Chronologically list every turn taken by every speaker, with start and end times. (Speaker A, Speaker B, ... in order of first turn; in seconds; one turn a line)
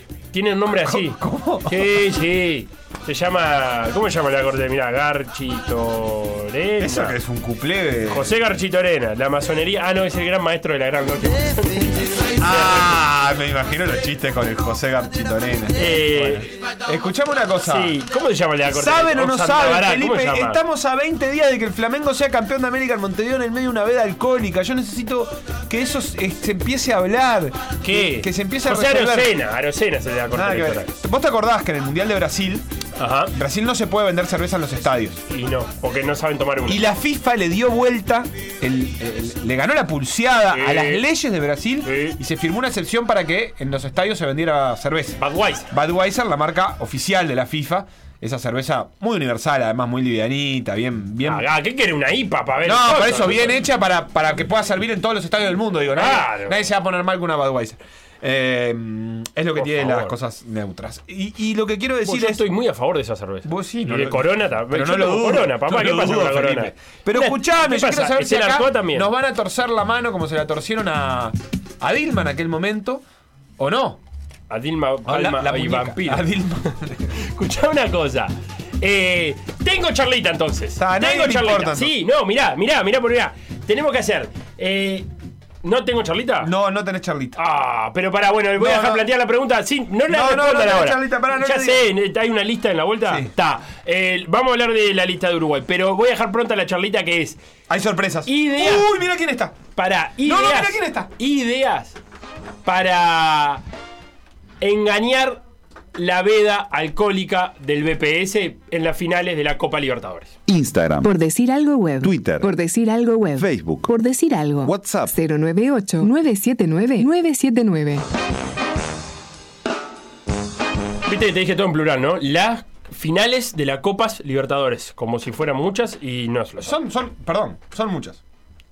Speaker A: 0.3-7.2
Speaker B: 0.7-2.0
Speaker B: 6.8-8.3
Speaker A: 8.1-13.0
Speaker B: 12.4-18.0
Speaker A: 15.7-16.5
Speaker A: 17.6-20.6
Speaker B: 18.7-29.3
Speaker A: 27.8-30.9
Speaker B: 30.3-32.6
Speaker A: 33.0-33.3
Speaker B: 33.3-35.2
Speaker A: 35.3-36.9
Speaker B: 36.6-51.5
Speaker A: 40.5-41.0
Speaker A: 41.8-42.2
Speaker A: 45.2-45.7
Speaker A: 51.2-53.6
Speaker B: 52.6-62.4
Speaker A: 55.9-56.6
Speaker A: 59.5-60.1
Speaker A: 62.0-69.1
Speaker B: 63.4-73.0
Speaker B: 73.6-74.0
Speaker A: 74.5-76.3
Speaker B: 75.0-77.1
Speaker A: 77.1-85.1
Speaker B: 80.8-81.9
Speaker A: 85.6-86.5
Speaker B: 86.4-87.4
Speaker A: 87.3-97.4
Speaker B: 88.6-89.1
Speaker B: 90.1-91.9
Speaker B: 97.7-99.6
Speaker A: 98.2-98.9
Speaker A: 99.7-102.0
Speaker B: 100.2-101.1
Speaker A: 102.6-103.6
Speaker A: 104.6-105.4
Speaker A: 105.9-110.3
Speaker C: 110.5-111.1
Speaker D: 111.0-118.0
Speaker C: 112.0-112.5
Speaker C: 113.4-113.9
Speaker C: 114.6-115.1
Speaker A: 121.0-126.8
Speaker B: 126.6-128.2